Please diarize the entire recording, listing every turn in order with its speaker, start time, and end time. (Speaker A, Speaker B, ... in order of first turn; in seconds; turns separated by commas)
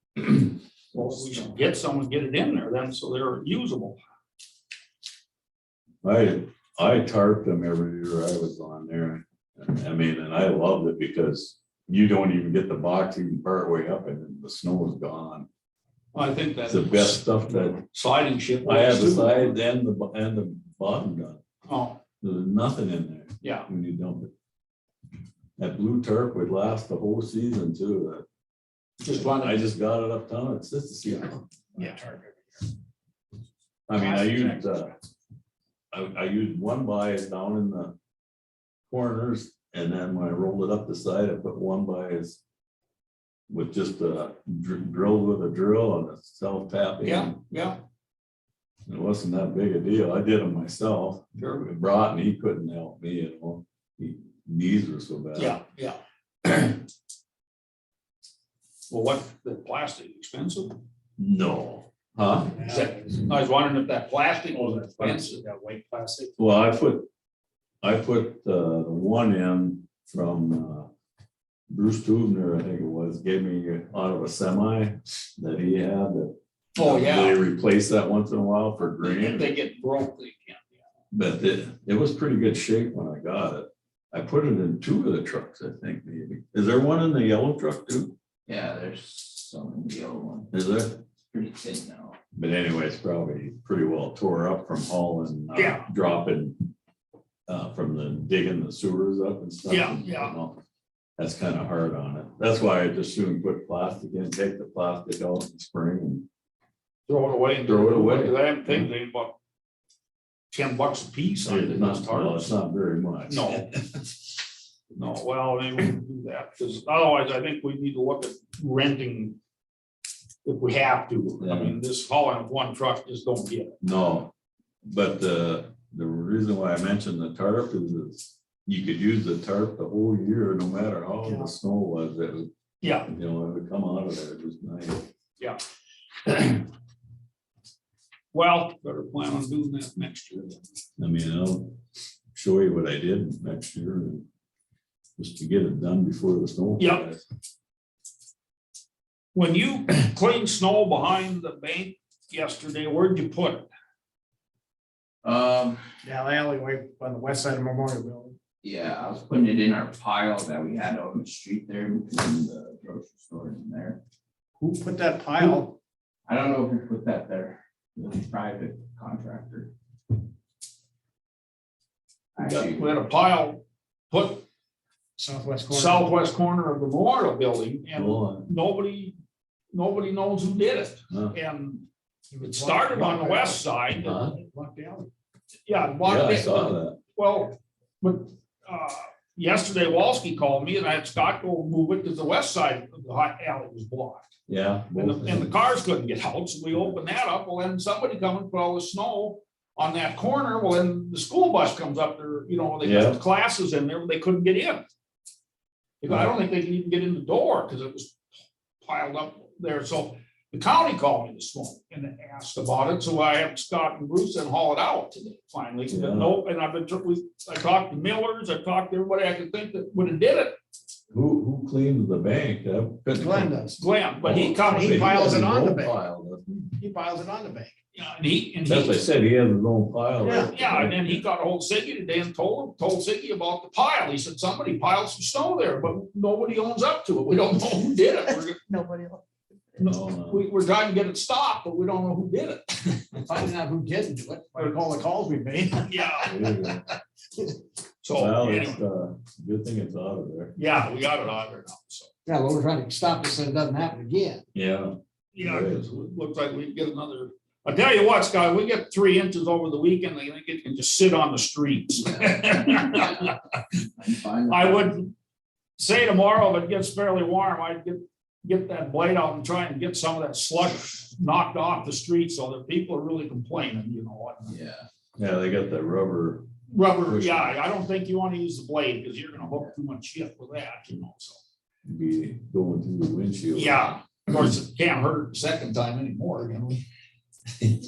Speaker A: 0.9-4.0, Speaker B: 0.9-1.6, Speaker C: 6.0-15.5, Speaker A: 16.1-19.6, Speaker C: 16.7-17.8, Speaker C: 18.6-21.4, Speaker A: 21.7-22.0, Speaker C: 22.2-24.3, Speaker A: 23.4-23.7, Speaker C: 25.6-28.2, Speaker A: 29.0-29.6, Speaker C: 29.1-31.4, Speaker D: 31.8-32.6, Speaker C: 33.9-34.9, Speaker D: 34.0-35.1, Speaker C: 35.9-38.0, Speaker C: 38.9-42.4, Speaker C: 43.5-47.4, Speaker A: 47.0-47.8, Speaker C: 48.9-55.6, Speaker A: 51.4-51.7, Speaker A: 55.4-56.0, Speaker A: 58.9-60.8, Speaker C: 61.2-62.6, Speaker D: 62.5-63.3, Speaker A: 62.7-65.4, Speaker D: 64.5-66.3, Speaker C: 66.4-67.1, Speaker C: 67.8-70.9, Speaker C: 71.7-79.5, Speaker A: 76.8-77.4, Speaker A: 79.0-80.6, Speaker C: 81.1-88.2, Speaker B: 88.5-90.5, Speaker C: 90.5-91.0, Speaker B: 91.3-92.2, Speaker C: 92.3-96.6, Speaker A: 95.5-95.9, Speaker C: 97.5-100.6, Speaker A: 99.7-100.3, Speaker C: 101.2-106.3, Speaker A: 107.1-109.3, Speaker C: 107.6-108.9, Speaker A: 110.5-112.5, Speaker C: 111.5-113.8, Speaker A: 113.3-113.7, Speaker A: 114.9-119.4, Speaker A: 120.4-123.8, Speaker C: 121.4-121.8, Speaker C: 123.8-124.3, Speaker C: 124.8-132.5, Speaker D: 131.2-131.5, Speaker A: 132.8-133.1, Speaker C: 133.1-135.1, Speaker A: 138.3-140.6, Speaker C: 141.0-141.8, Speaker C: 142.3-144.3, Speaker C: 145.2-147.2, Speaker A: 146.8-147.1, Speaker A: 149.3-153.7, Speaker B: 155.2-155.8, Speaker D: 156.0-158.4, Speaker B: 158.6-164.0, Speaker D: 164.6-165.8, Speaker B: 166.3-169.7, Speaker B: 172.3-173.0, Speaker A: 172.4-174.4, Speaker D: 175.2-176.1, Speaker A: 175.7-179.2, Speaker C: 177.9-178.5, Speaker A: 179.7-181.9, Speaker D: 182.3-185.1, Speaker A: 182.4-184.3, Speaker C: 184.0-184.3, Speaker A: 185.7-194.3, Speaker C: 186.0-187.0, Speaker C: 194.5-195.5, Speaker A: 194.9-204.8, Speaker C: 202.8-203.2, Speaker A: 206.0-208.2, Speaker A: 208.8-220.6, Speaker C: 215.9-216.4, Speaker C: 221.1-223.6, Speaker D: 223.2-223.8, Speaker A: 223.8-225.3, Speaker C: 224.2-226.7, Speaker D: 224.6-226.0, Speaker D: 226.8-227.8, Speaker A: 227.9-229.1, Speaker C: 228.7-231.2, Speaker D: 230.2-230.5, Speaker A: 230.5-238.6, Speaker D: 238.7-239.2, Speaker A: 239.8-243.2, Speaker C: 239.8-240.4, Speaker D: 243.1-246.3, Speaker A: 245.9-246.4, Speaker C: 246.2-246.9, Speaker A: 248.0-248.8, Speaker C: 248.1-250.6, Speaker A: 250.6-252.1, Speaker D: 252.3-254.4, Speaker C: 254.5-255.8, Speaker A: 255.3-263.4, Speaker B: 262.1-263.3, Speaker B: 264.0-265.0, Speaker A: 264.5-265.1, Speaker A: 265.8-274.5, Speaker B: 274.5-274.9, Speaker C: 275.2-276.5, Speaker A: 276.7-281.4, Speaker C: 277.0-277.6, Speaker B: 279.4-279.7, Speaker C: 281.8-283.8, Speaker A: 283.5-286.8